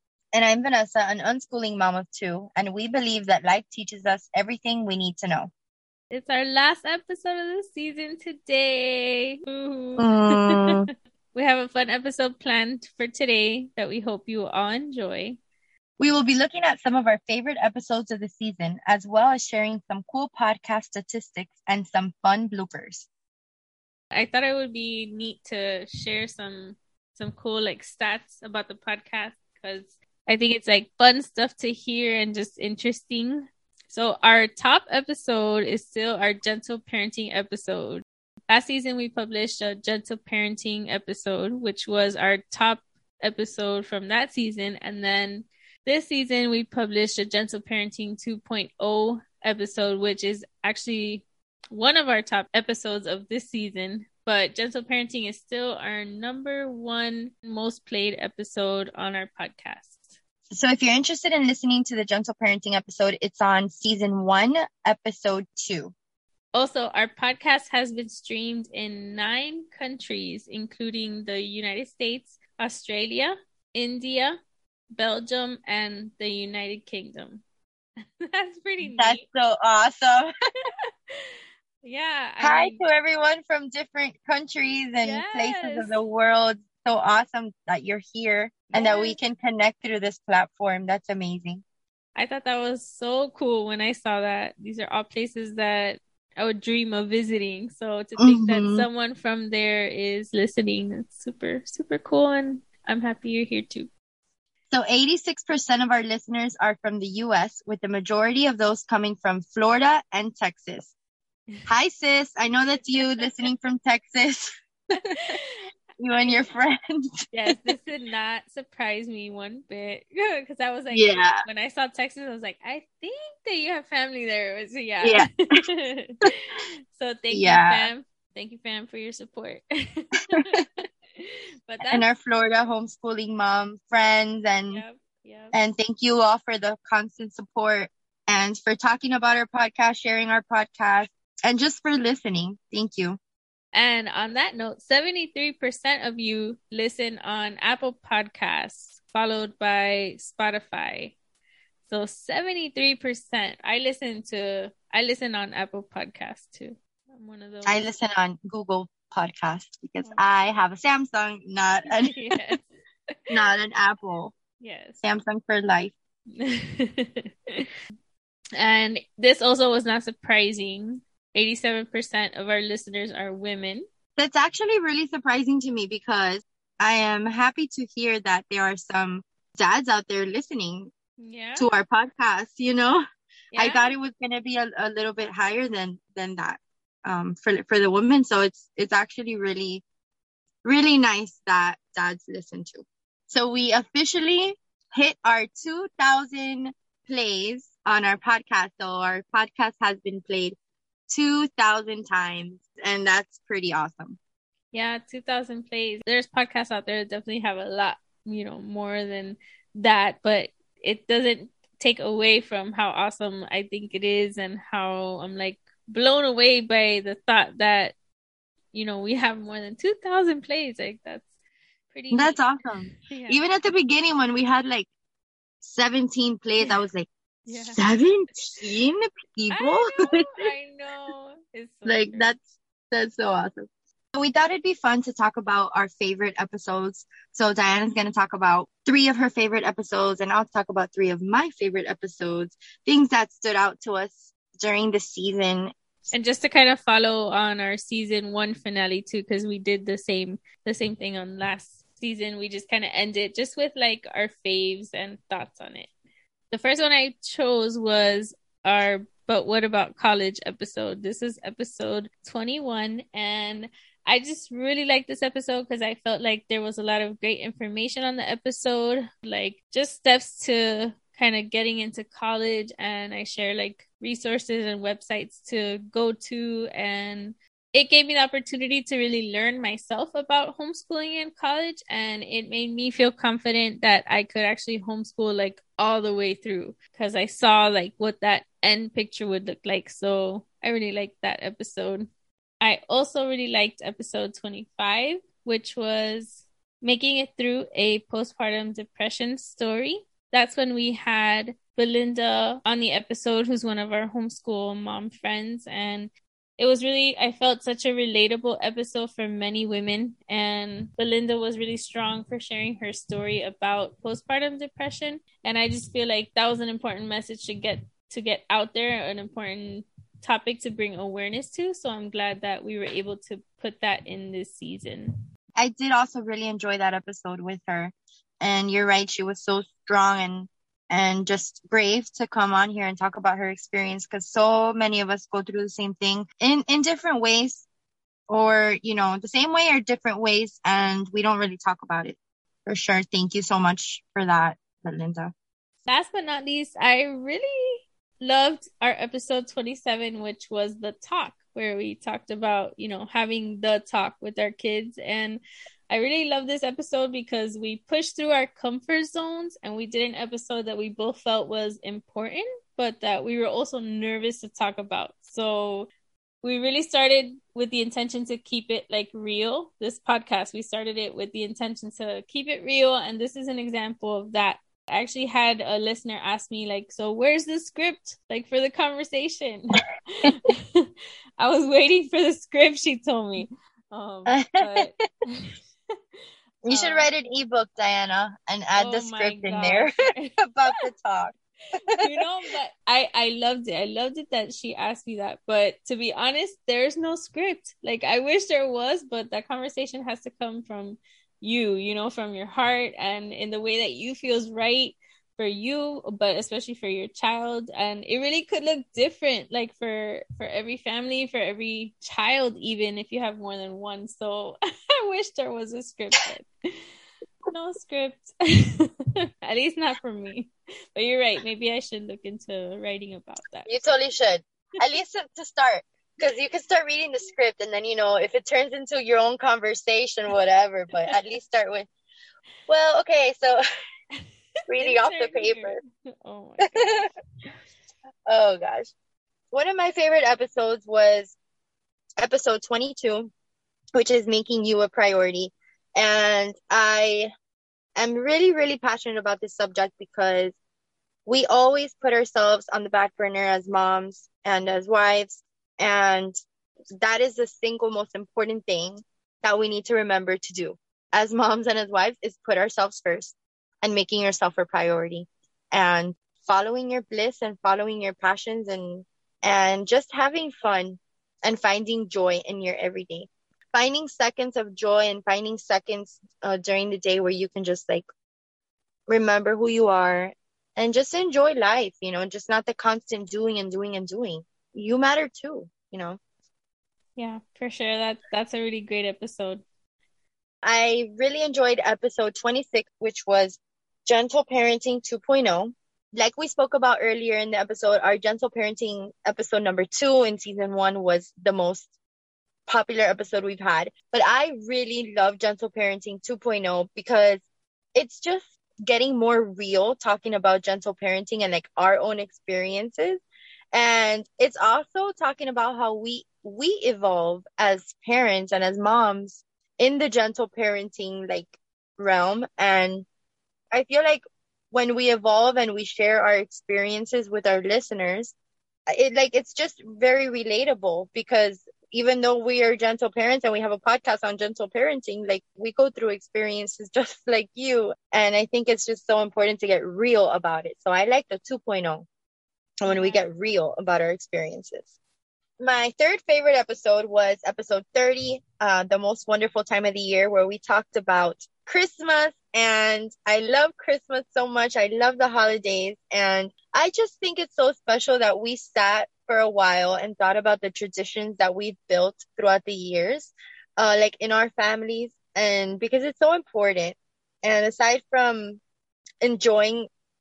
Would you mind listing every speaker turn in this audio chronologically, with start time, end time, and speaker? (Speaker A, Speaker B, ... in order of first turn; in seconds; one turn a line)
Speaker A: 0.3-5.5
Speaker B: 6.1-10.7
Speaker A: 10.0-10.9
Speaker B: 11.3-15.4
Speaker A: 16.0-23.1
Speaker B: 24.1-60.1
Speaker A: 60.5-65.9
Speaker B: 66.5-74.4
Speaker B: 74.9-77.4
Speaker B: 78.2-79.2
Speaker A: 78.8-80.3
Speaker B: 81.8-82.8
Speaker A: 82.4-91.6
Speaker B: 85.0-86.0
Speaker B: 88.7-89.2
Speaker B: 92.2-103.9
Speaker A: 98.2-98.9
Speaker A: 104.7-110.9
Speaker A: 111.7-114.5
Speaker B: 112.9-113.5
Speaker B: 115.1-115.4
Speaker A: 116.0-117.7
Speaker B: 116.2-116.5
Speaker B: 117.3-126.2
Speaker A: 120.9-121.4
Speaker A: 125.0-125.6
Speaker B: 126.9-132.1
Speaker A: 127.3-127.9
Speaker A: 130.3-130.6
Speaker A: 131.9-134.8
Speaker B: 134.7-135.6
Speaker A: 135.5-143.2
Speaker B: 143.7-151.2
Speaker B: 151.9-157.9
Speaker A: 157.7-162.2
Speaker B: 161.9-163.2
Speaker A: 163.3-164.3
Speaker B: 164.6-165.0
Speaker A: 165.0-165.9
Speaker B: 166.3-167.7
Speaker B: 168.6-173.8
Speaker A: 174.2-180.9
Speaker B: 181.2-181.7
Speaker A: 181.6-183.0
Speaker B: 183.5-183.9
Speaker A: 183.6-189.8
Speaker A: 190.6-200.6
Speaker A: 201.1-204.2
Speaker B: 204.7-217.9
Speaker B: 218.7-221.3
Speaker B: 221.9-223.4
Speaker A: 222.1-224.9
Speaker A: 225.6-230.3
Speaker B: 227.5-227.8
Speaker B: 229.5-232.3
Speaker A: 231.9-245.7
Speaker B: 246.1-255.9
Speaker B: 256.5-292.1
Speaker B: 292.6-325.1
Speaker A: 325.6-337.7
Speaker A: 338.3-345.3
Speaker B: 345.9-365.9
Speaker B: 366.4-385.5
Speaker A: 384.3-385.0
Speaker A: 386.6-391.4
Speaker B: 386.7-387.1
Speaker B: 388.8-390.4
Speaker B: 392.0-416.5
Speaker B: 417.5-423.7
Speaker A: 423.7-431.9
Speaker A: 432.7-433.6
Speaker A: 434.7-435.8
Speaker B: 434.8-437.1
Speaker A: 436.6-437.1
Speaker A: 438.3-438.9
Speaker A: 439.5-441.4
Speaker A: 442.2-443.3
Speaker A: 443.9-447.3
Speaker A: 448.0-450.6
Speaker A: 451.3-456.4
Speaker A: 457.0-478.1
Speaker A: 479.1-486.2
Speaker B: 487.2-489.6
Speaker A: 490.6-501.9
Speaker A: 502.7-507.4
Speaker A: 507.9-513.2
Speaker A: 513.7-523.1
Speaker A: 523.7-528.3
Speaker A: 528.9-542.1
Speaker A: 542.8-544.9
Speaker B: 542.9-543.3
Speaker A: 545.6-568.6
Speaker A: 569.2-569.9